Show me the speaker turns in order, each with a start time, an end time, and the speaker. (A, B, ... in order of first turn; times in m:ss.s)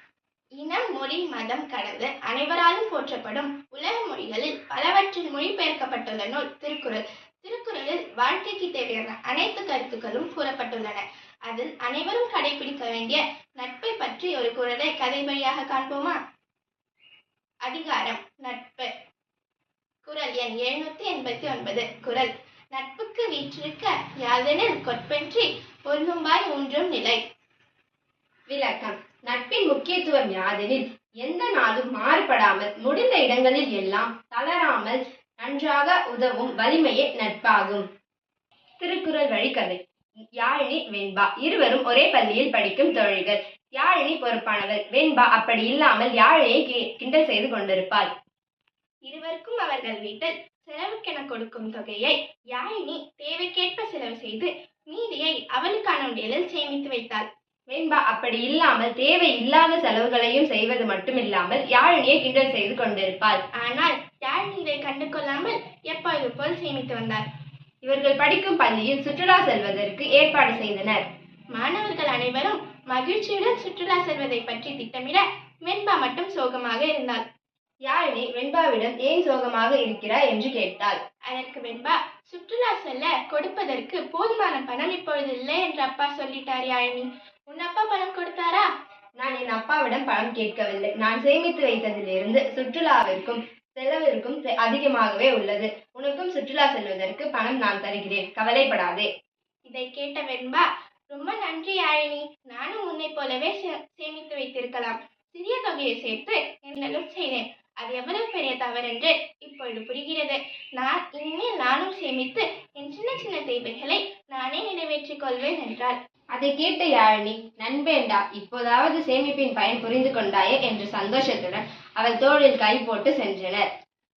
0:00.6-0:16.2 A
0:17.6-0:18.9 A
0:20.0-0:27.2 A
0:28.5-0:37.8 B
0:38.8-0:39.8 B
0:40.4-0:48.1 B
0:49.1-0:57.3 A
0:57.7-1:03.4 B
1:03.6-1:07.2 A
1:07.8-1:11.0 B
1:11.5-1:17.2 A
1:17.9-1:21.0 B
1:21.3-1:28.6 A
1:29.2-1:39.1 B
1:39.7-1:56.0 A
1:56.3-2:03.6 B